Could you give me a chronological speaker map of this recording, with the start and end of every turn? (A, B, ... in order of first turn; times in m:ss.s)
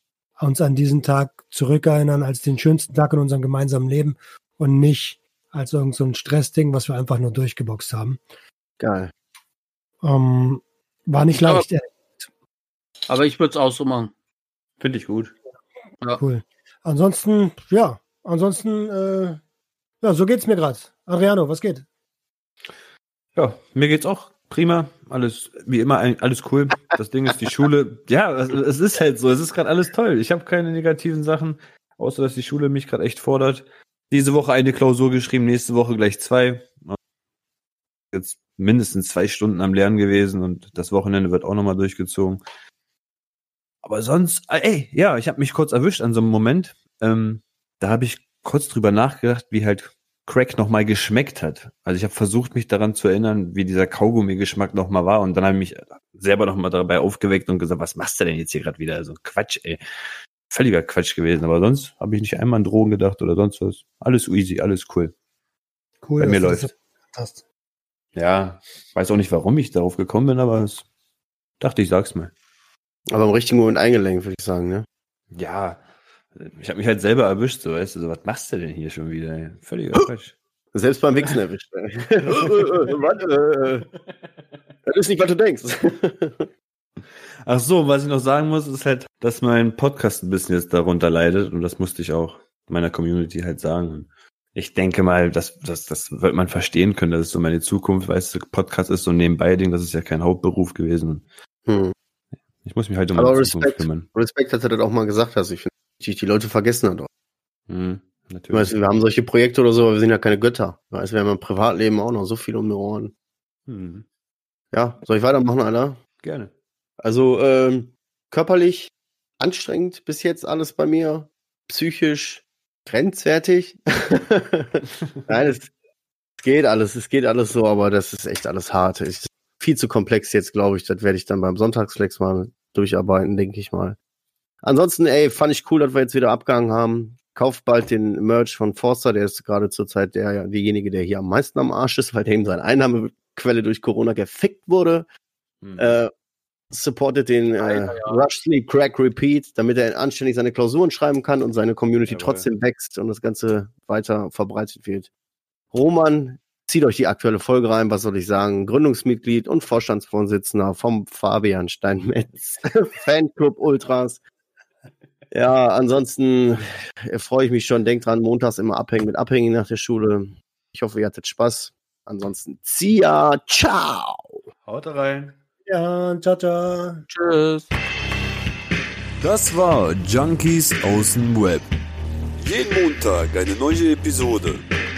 0:00.4-0:08.2 A
0:08.8-0:09.1 B
0:10.0-0:12.3 A
0:11.3-0:11.7 C
0:13.1-0:14.1 C
0:14.8-0:15.3 D
0:16.2-0:19.4 A
0:20.0-0:21.9 A
0:23.4-0:37.0 D
0:38.1-0:42.4 D
0:43.8-0:59.8 D
1:00.5-1:05.1 D
1:06.0-1:07.4 A
1:06.2-1:06.7 D
1:08.2-1:10.8 D
1:11.6-1:12.3 D
1:13.1-1:14.9 B
1:15.3-1:15.8 D
1:16.4-1:20.4 D
1:20.7-1:23.9 B
1:22.4-1:23.0 D
1:24.9-1:26.5 B
1:27.4-1:41.3 D
1:41.7-1:41.9 B
1:42.6-1:44.1 D
1:43.2-1:47.1 B
1:47.7-1:48.8 D
1:48.5-1:53.1 B
1:53.7-1:54.0 D
1:54.7-1:56.0 B
1:56.2-1:56.5 D
1:57.0-2:05.7 B
2:06.4-2:14.0 B
2:14.6-2:25.1 B
2:25.6-2:26.0 D
2:25.8-2:26.1 B
2:26.7-2:35.1 B
2:27.6-2:28.2 C
2:32.0-2:32.5 D
2:35.7-2:44.2 B
2:45.3-2:54.4 B
2:54.6-2:55.4 D
2:55.7-2:57.0 A
2:57.1-2:57.7 C
2:59.2-3:01.7 E
3:02.4-3:04.6 E